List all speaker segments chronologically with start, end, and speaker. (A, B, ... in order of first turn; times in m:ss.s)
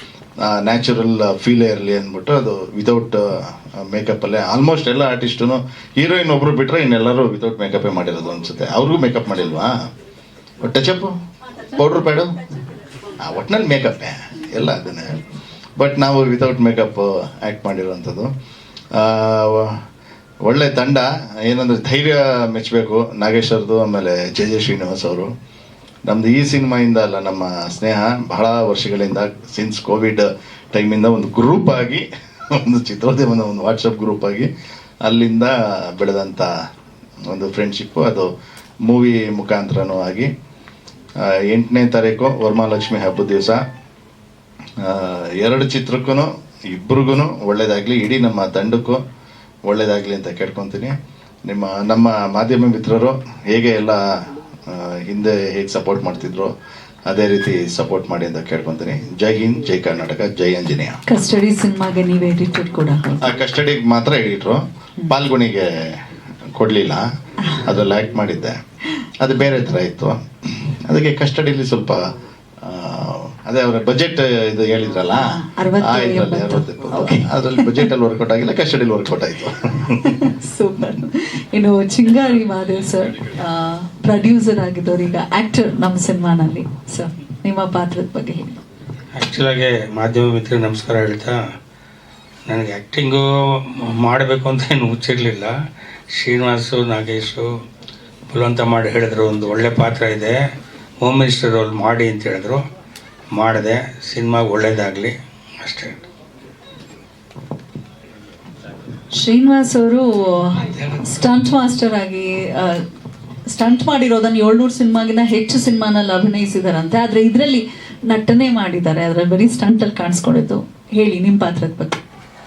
0:00.4-0:09.7 A
0:10.6-0:11.2 A
0:11.8-0:12.4 A
0:13.2-0:15.2 A
0:15.8-0:18.3 A
0:19.0-0:19.7 A
0:20.5-0:25.3 A
0:26.1-0:32.1 A
0:32.6-0:34.5 A
0:35.0-0:36.5 A
0:37.3-0:38.3 A
0:38.8-0:40.3 A
0:41.5-0:43.6 A
0:44.8-0:49.0 A
0:49.7-0:51.0 A
0:51.5-0:54.0 A
0:54.7-0:56.5 A
0:57.1-1:01.0 A
1:01.1-1:03.4 B
1:03.2-1:05.6 A
1:06.6-1:07.0 A
1:07.6-1:08.6 A
1:09.2-1:12.0 A
1:12.7-1:15.2 A
1:15.1-1:17.9 B
1:15.8-1:19.6 A
1:20.1-1:28.6 B
1:29.2-1:31.4 C
1:32.5-1:35.5 C
1:36.1-1:37.5 C
1:38.3-1:40.4 C
1:41.0-1:42.6 C
1:43.3-1:46.0 C
1:49.1-1:52.8 B
1:53.5-2:02.0 B